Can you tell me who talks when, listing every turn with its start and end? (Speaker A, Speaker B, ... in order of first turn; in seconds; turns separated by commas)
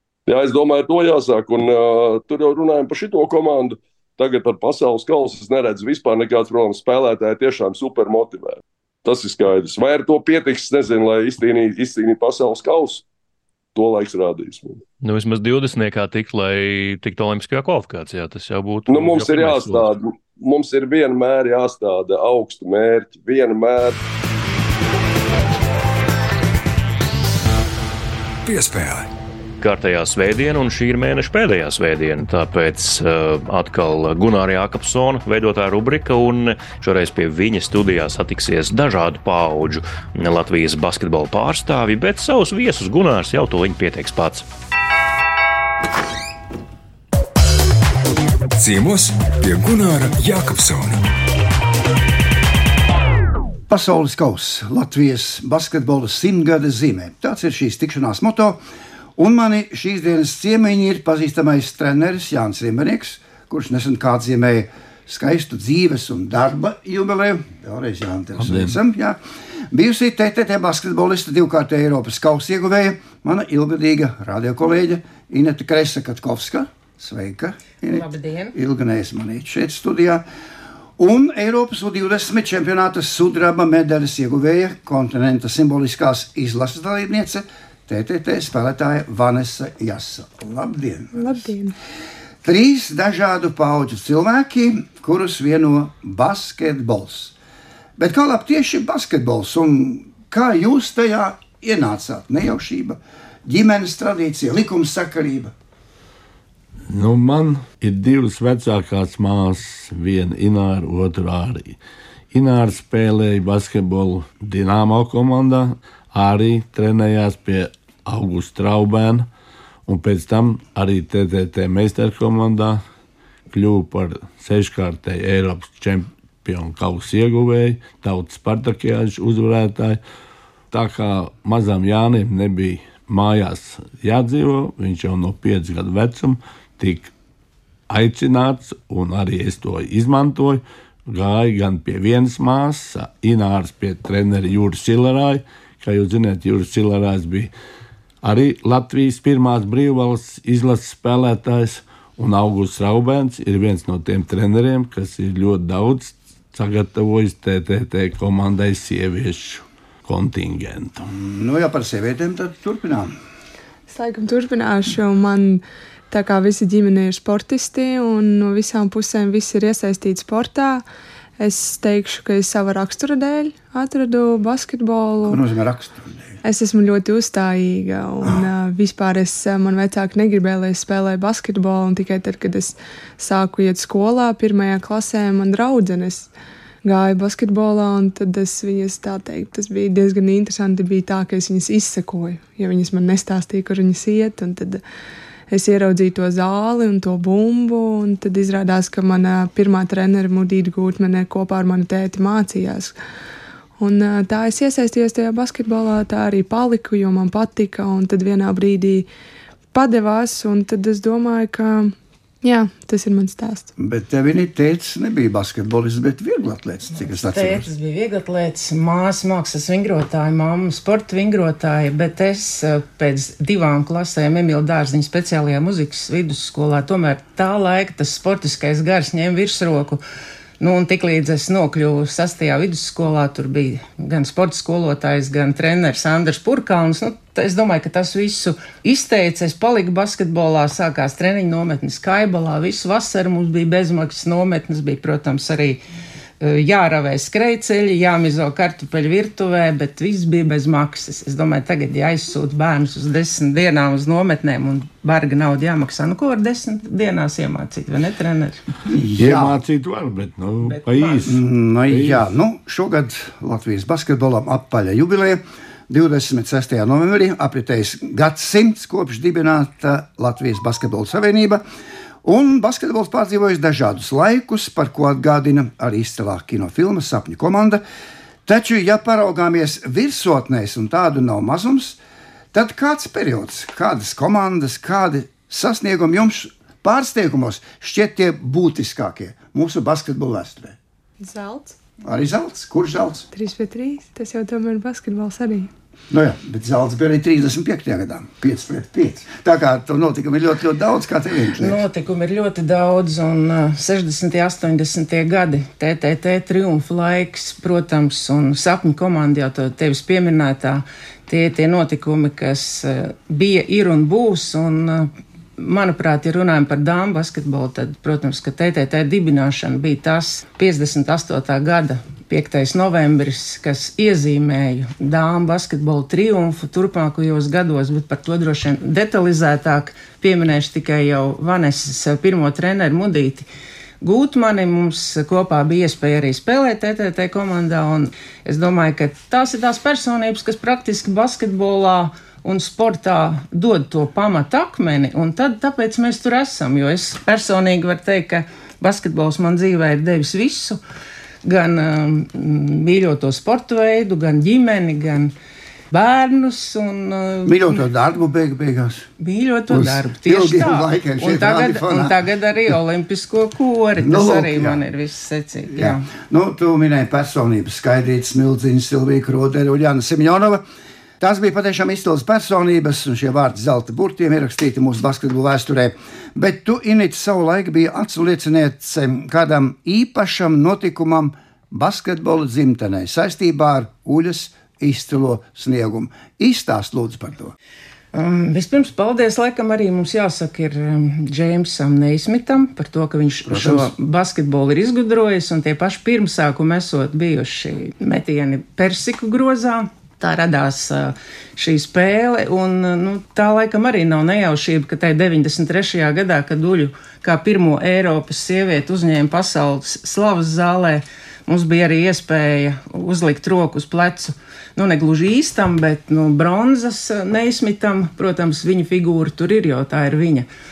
Speaker A: 0.3-13.0, Speaker A: 13.8-14.8, Speaker B: 15.0-19.9, Speaker A: 18.9-24.0, Speaker C: 28.4-29.1, Speaker B: 29.6-44.5, Speaker C: 48.6-51.0, Speaker D: 53.7-58.6, Speaker D: 59.2-69.2, Speaker E: 68.4-68.8, Speaker D: 69.7-80.2, Speaker F: 77.8-78.6, Speaker D: 81.0-91.4, Speaker G: 91.1-91.7, Speaker D: 92.4-97.3, Speaker D: 98.0-105.5, Speaker E: 106.9-111.8, Speaker E: 112.3-119.3, Speaker E: 119.9-122.8, Speaker E: 123.5-130.0, Speaker E: 130.7-137.1, Speaker E: 137.9-147.5, Speaker E: 148.2-161.1, Speaker D: 161.1-163.1, Speaker G: 163.9-170.8, Speaker G: 171.4-175.4, Speaker D: 175.2-176.4, Speaker G: 176.4-186.3, Speaker G: 186.8-194.8, Speaker G: 195.5-203.0, Speaker G: 203.8-209.1, Speaker G: 209.7-213.7, Speaker D: 213.8-217.7, Speaker F: 217.0-230.0, Speaker F: 230.6-245.8, Speaker F: 246.4-258.6, Speaker D: 258.9-259.6, Speaker E: 259.2-261.4, Speaker F: 260.7-261.2, Speaker D: 261.2-271.6, Speaker E: 261.9-262.3, Speaker D: 272.2-277.8, Speaker D: 278.5-282.0, Speaker D: 282.5-290.8, Speaker G: 291.2-291.8, Speaker D: 292.1-293.3, Speaker G: 293.3-295.7, Speaker D: 296.1-301.8, Speaker F: 301.6-333.5, Speaker F: 334.0-350.8, Speaker F: 351.4-355.3, Speaker F: 355.9-357.8, Speaker D: 357.4-359.1, Speaker F: 359.2-366.1, Speaker D: 359.7-362.2, Speaker D: 364.0-364.8, Speaker D: 365.7-370.6, Speaker D: 371.2-387.5, Speaker F: 388.1-420.5, Speaker D: 393.5-393.9